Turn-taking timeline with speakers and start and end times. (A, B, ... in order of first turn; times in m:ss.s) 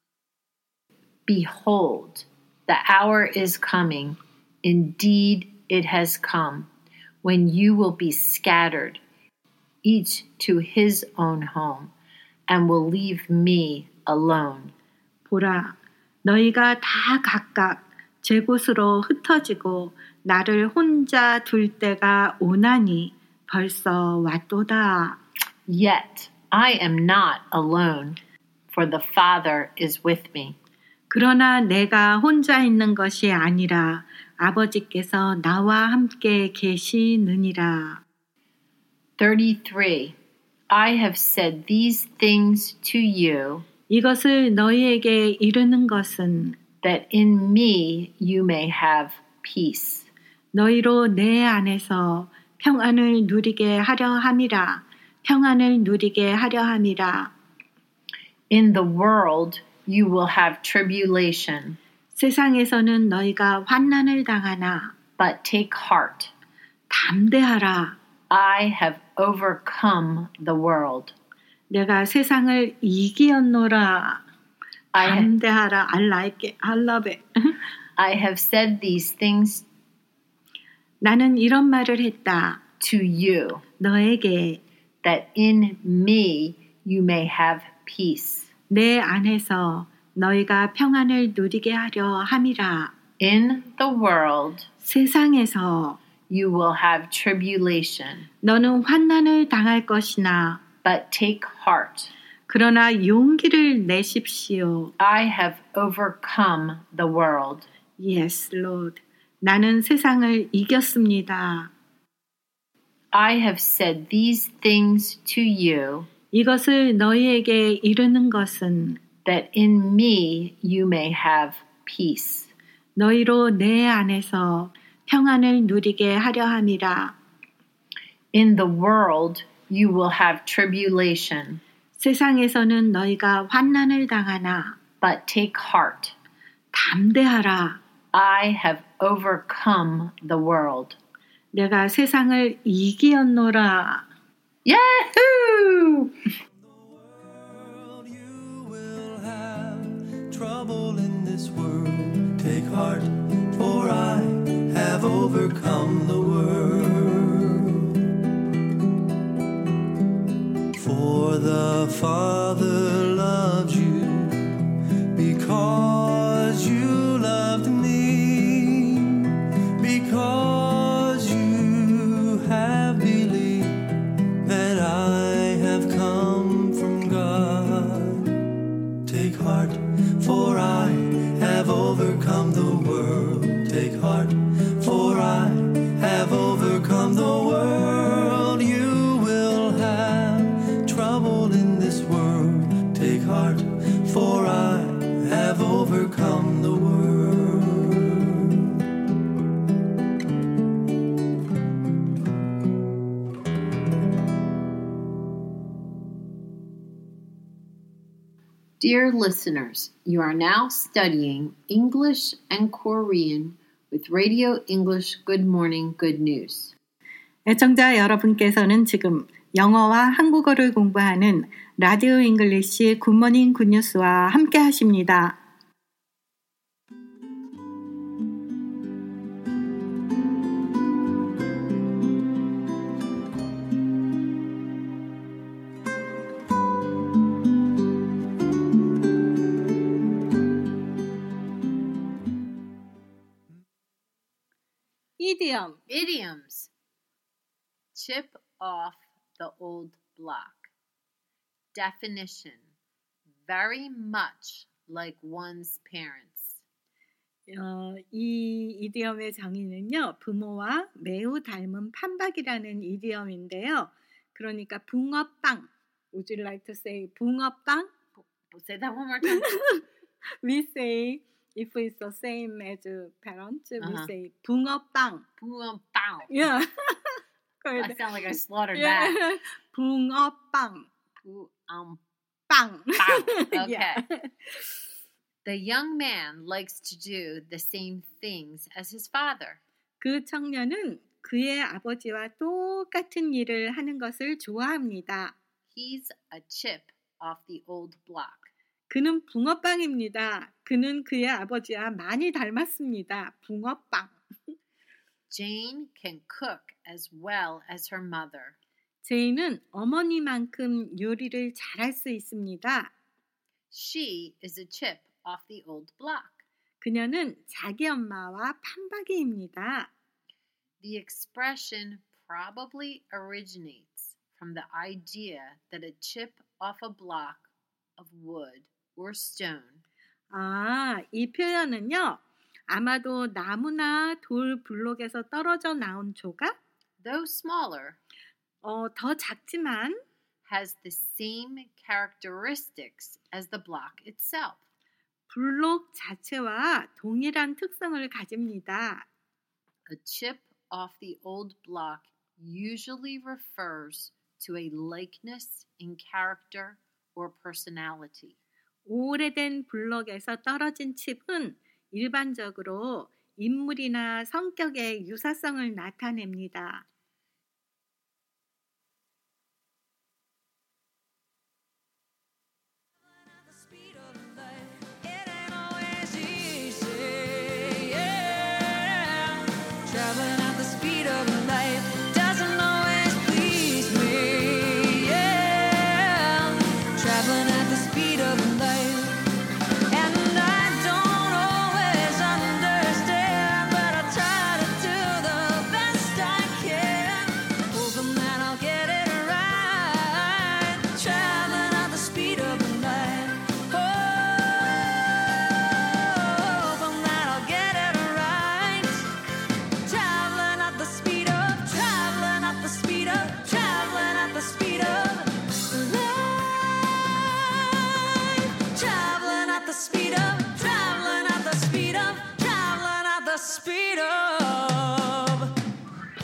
0:01.3-0:06.7 A
0:07.2-0:09.0 A
0:09.8-0:11.9 A
0:12.5-0:14.7 A
0:15.3-0:25.2 B
0:25.7-0:28.2 A
0:28.7-0:30.6 A
0:31.1-0:38.0 B
0:39.2-0:40.2 A
0:40.7-0:43.7 A
0:43.9-0:46.6 B
0:46.8-0:50.1 A
0:50.5-0:57.3 B
0:58.5-1:01.8 A
1:02.2-1:05.0 B
1:05.2-1:06.3 A
1:06.9-1:08.0 B
1:08.3-1:11.1 A
1:11.7-1:14.2 B
1:14.9-1:15.3 A
1:15.0-1:17.5 B
1:18.0-1:19.7 A
1:21.0-1:22.6 B
1:22.8-1:23.6 A
1:23.8-1:24.6 B
1:25.0-1:28.5 A
1:28.7-1:32.9 B
1:33.2-1:34.7 A
1:34.8-1:36.0 B
1:36.3-1:38.3 A
1:38.4-1:40.6 B
1:40.8-1:42.1 A
1:42.5-1:44.9 B
1:45.0-1:47.7 A
1:48.0-1:51.7 B
1:53.1-1:56.1 A
1:56.3-1:59.0 B
1:59.2-2:02.5 A
2:03.0-2:07.2 B
2:08.3-2:11.6 A
2:12.0-2:14.8 B
2:15.0-2:16.1 A
2:16.7-2:17.8 B
2:18.1-2:21.0 A
2:21.5-2:24.1 B
2:24.6-2:26.2 A
2:26.6-2:38.0 C
2:40.8-2:44.5 C
2:45.1-2:53.9 C
2:54.4-2:58.4 C
2:59.0-3:18.7 C
3:28.8-3:36.7 A
3:37.5-3:45.4 B
4:05.2-4:05.8 B
4:05.9-4:06.7 A
4:08.0-4:10.7 A
4:11.7-4:12.6 A
4:13.5-4:16.6 A
4:17.5-4:27.9 B
4:28.2-4:29.6 A
4:29.3-4:29.8 B
4:30.4-4:35.2 B
4:33.8-4:34.1 A
4:35.4-4:36.3 A
4:36.3-4:38.2 B
4:37.8-4:39.2 A
4:38.7-4:40.9 B
4:41.2-4:42.0 A
4:42.5-4:44.3 B
4:43.0-4:44.0 A
4:45.4-4:49.6 A
4:50.0-4:55.4 B
4:55.7-4:58.5 A
4:58.9-5:04.2 B
5:05.3-5:08.6 A
5:09.0-5:12.9 B
5:13.7-5:16.4 A
5:16.8-5:19.9 B
5:20.8-5:29.8 A
5:30.3-5:36.6 B
5:37.0-5:38.0 A
5:38.6-5:40.0 B
5:40.5-5:44.6 A
5:45.3-5:49.1 B
5:49.9-5:58.4 A
5:58.9-6:06.8 B
6:13.1-6:29.2 D
6:29.9-6:49.1 D
6:49.8-7:05.5 D